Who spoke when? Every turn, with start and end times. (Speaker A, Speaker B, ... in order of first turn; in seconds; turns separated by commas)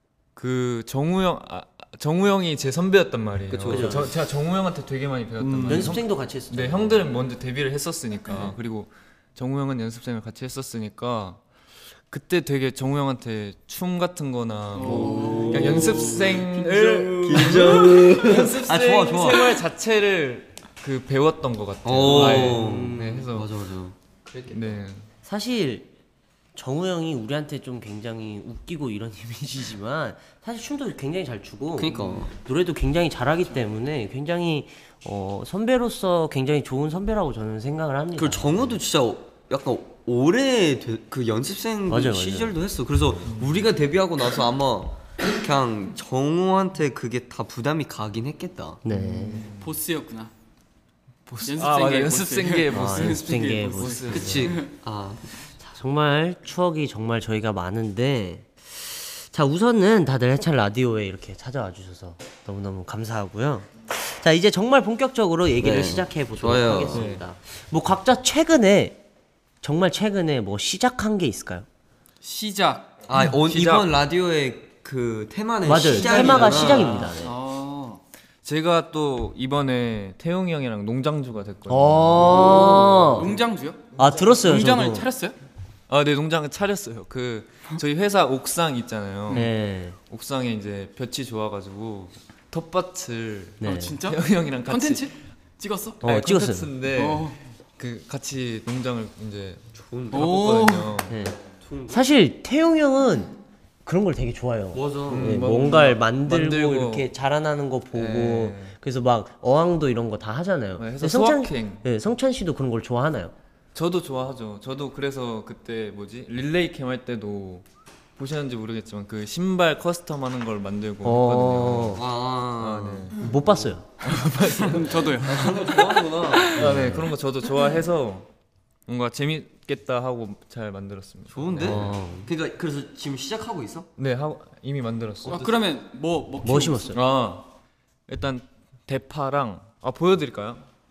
Speaker A: 0.4-11.4, Speaker B: 3.5-4.1, Speaker C: 3.7-4.1, Speaker B: 5.4-5.9, Speaker C: 5.6-7.0, Speaker A: 12.1-23.5, Speaker D: 14.7-16.9, Speaker B: 14.8-19.6, Speaker B: 21.9-24.6, Speaker C: 22.1-23.3, Speaker A: 24.5-25.1, Speaker C: 25.2-25.9, Speaker C: 26.5-38.8, Speaker B: 31.8-32.3, Speaker B: 38.1-48.8, Speaker C: 41.9-42.6, Speaker A: 43.2-43.7, Speaker C: 48.8-49.5, Speaker A: 48.9-49.7, Speaker D: 49.6-50.3, Speaker A: 51.2-54.5, Speaker D: 51.4-54.7, Speaker C: 52.7-54.5, Speaker B: 54.1-55.2, Speaker C: 55.6-69.0, Speaker B: 65.6-67.0, Speaker A: 66.9-67.2, Speaker C: 69.6-71.7, Speaker D: 72.2-72.9, Speaker B: 73.1-77.0, Speaker A: 73.2-73.9, Speaker C: 75.6-77.3, Speaker D: 76.0-78.0, Speaker A: 76.5-76.9, Speaker A: 78.4-83.1, Speaker C: 81.7-83.3, Speaker B: 82.2-83.1, Speaker D: 82.4-85.3, Speaker C: 84.0-85.1, Speaker A: 85.9-89.5, Speaker C: 89.3-90.0, Speaker A: 90.1-95.2, Speaker C: 93.6-94.0, Speaker D: 93.6-96.0, Speaker C: 96.0-96.7, Speaker A: 96.0-101.2, Speaker D: 96.9-97.4, Speaker B: 99.8-100.5, Speaker D: 100.1-100.9, Speaker C: 101.1-113.3, Speaker B: 101.6-102.0, Speaker B: 104.7-105.4, Speaker A: 105.1-107.1, Speaker A: 107.9-108.8, Speaker A: 110.8-111.8, Speaker A: 113.8-117.6, Speaker A: 118.2-122.0, Speaker C: 121.0-122.0, Speaker B: 122.0-123.6, Speaker A: 122.6-123.3, Speaker C: 123.2-123.9, Speaker A: 124.0-125.6, Speaker D: 124.6-126.4, Speaker B: 125.2-126.7, Speaker A: 126.5-128.3, Speaker C: 126.6-127.1, Speaker A: 128.9-131.9, Speaker B: 131.3-133.9, Speaker C: 131.6-132.3, Speaker A: 134.0-135.5, Speaker D: 135.2-137.0, Speaker C: 136.4-137.0, Speaker A: 136.9-137.5, Speaker A: 138.1-140.6